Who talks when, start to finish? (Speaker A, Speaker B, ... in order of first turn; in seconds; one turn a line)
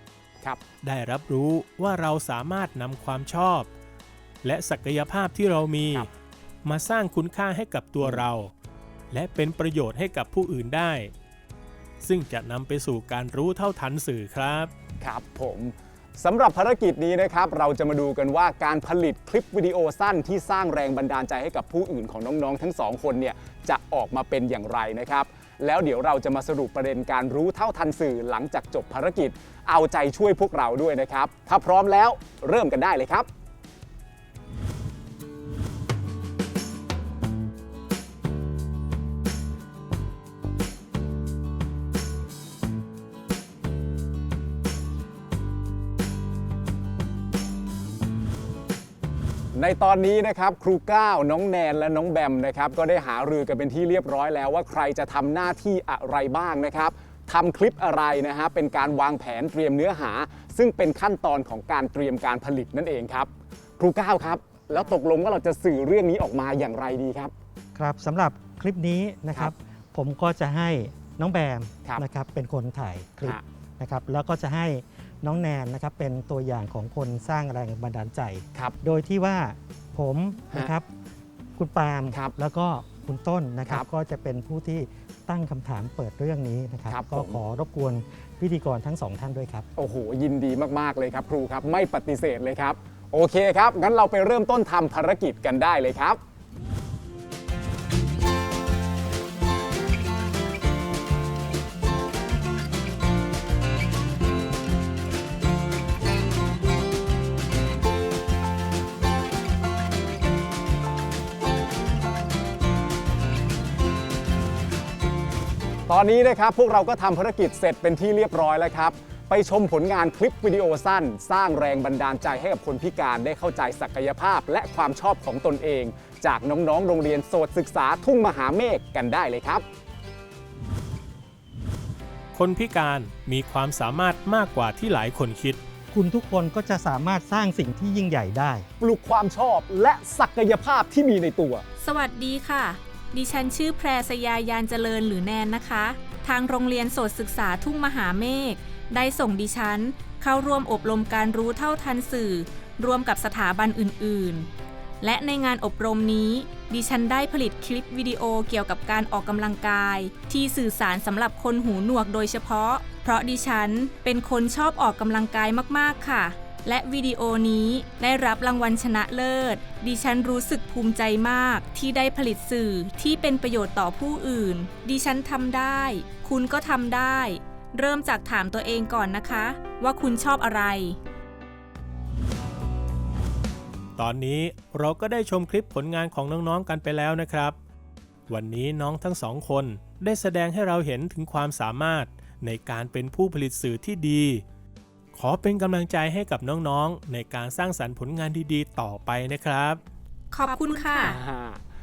Speaker A: 0.8-3.7
Speaker A: 4.4-6.1
Speaker A: 6.7-8.5
Speaker A: 9.1-11.1
Speaker A: 12.0-14.7
Speaker B: 15.0-33.3
Speaker B: 49.5-67.3
Speaker C: 67.8-80.9
Speaker C: 81.6-89.7
Speaker B: 86.9-87.4
Speaker B: 89.8-96.2
Speaker B: 115.9-129.7
Speaker A: 132.3-135.6
Speaker C: 135.9-138.7
Speaker B: 138.8-141.7
Speaker D: 141.8-154.5
Speaker D: 155.0-181.0
Speaker A: 184.0-187.6
Speaker A: 188.3-194.4
Speaker A: 195.2-199.8
Speaker D: 200.3-201.2
Speaker B: 200.9-201.6